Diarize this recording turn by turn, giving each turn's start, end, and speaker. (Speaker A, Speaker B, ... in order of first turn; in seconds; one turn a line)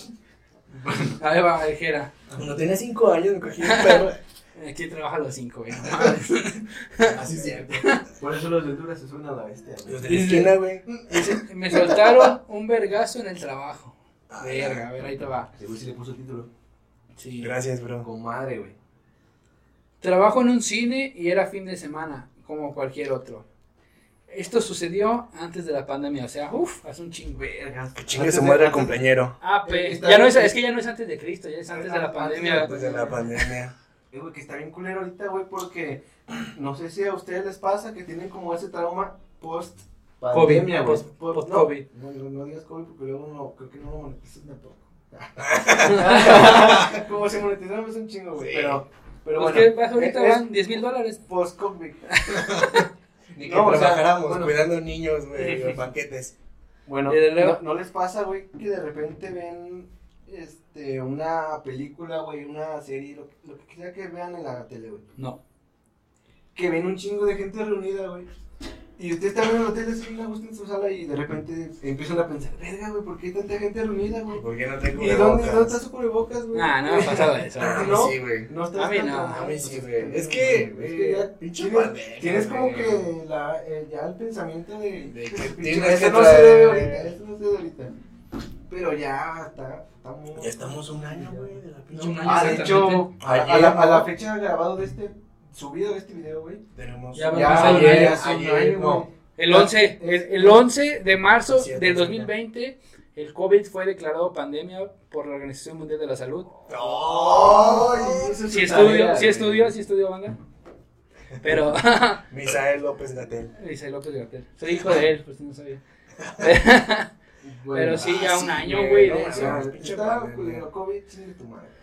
Speaker A: 0.8-1.1
Speaker B: 1.0-2.1
Speaker C: 2.3-4.2
Speaker B: 3.6-7.2
Speaker C: 7.0-8.0
Speaker B: 7.8-8.0
Speaker A: 8.2-10.1
Speaker C: 9.8-12.1
Speaker B: 10.0-15.5
Speaker C: 14.3-14.9
Speaker A: 15.5-16.5
Speaker B: 17.2-17.5
Speaker C: 17.4-18.1
Speaker A: 18.0-18.8
Speaker B: 20.0-23.4
Speaker B: 24.3-27.4
Speaker A: 27.3-29.0
Speaker C: 28.0-29.4
Speaker B: 29.4-33.1
Speaker A: 29.6-30.6
Speaker A: 31.7-33.2
Speaker C: 32.4-33.7
Speaker A: 34.1-50.5
Speaker B: 40.3-41.9
Speaker C: 45.4-47.0
Speaker C: 48.4-48.8
Speaker B: 49.3-51.2
Speaker A: 51.2-52.1
Speaker B: 52.1-52.9
Speaker C: 52.5-52.8
Speaker C: 53.3-56.3
Speaker A: 53.4-54.6
Speaker B: 55.4-55.7
Speaker A: 56.9-65.1
Speaker B: 57.1-57.6
Speaker A: 66.5-68.3
Speaker A: 69.0-87.9
Speaker C: 74.3-75.8
Speaker B: 76.5-78.1
Speaker C: 77.6-78.5
Speaker B: 78.8-79.4
Speaker C: 79.3-83.1
Speaker C: 85.1-87.1
Speaker A: 88.7-91.5
Speaker C: 90.4-94.1
Speaker B: 91.9-93.1
Speaker A: 92.2-96.6
Speaker C: 96.7-99.1
Speaker B: 97.1-98.2
Speaker A: 97.3-100.6
Speaker B: 99.4-106.5
Speaker C: 101.5-102.3
Speaker A: 106.7-109.7
Speaker C: 106.7-108.4
Speaker B: 108.5-110.4
Speaker C: 111.3-111.7
Speaker B: 111.4-112.2
Speaker C: 112.3-113.5
Speaker B: 113.5-115.8
Speaker C: 116.2-116.5
Speaker B: 116.4-117.1
Speaker A: 117.4-118.2
Speaker B: 117.7-119.6
Speaker C: 118.0-120.7
Speaker A: 119.3-121.7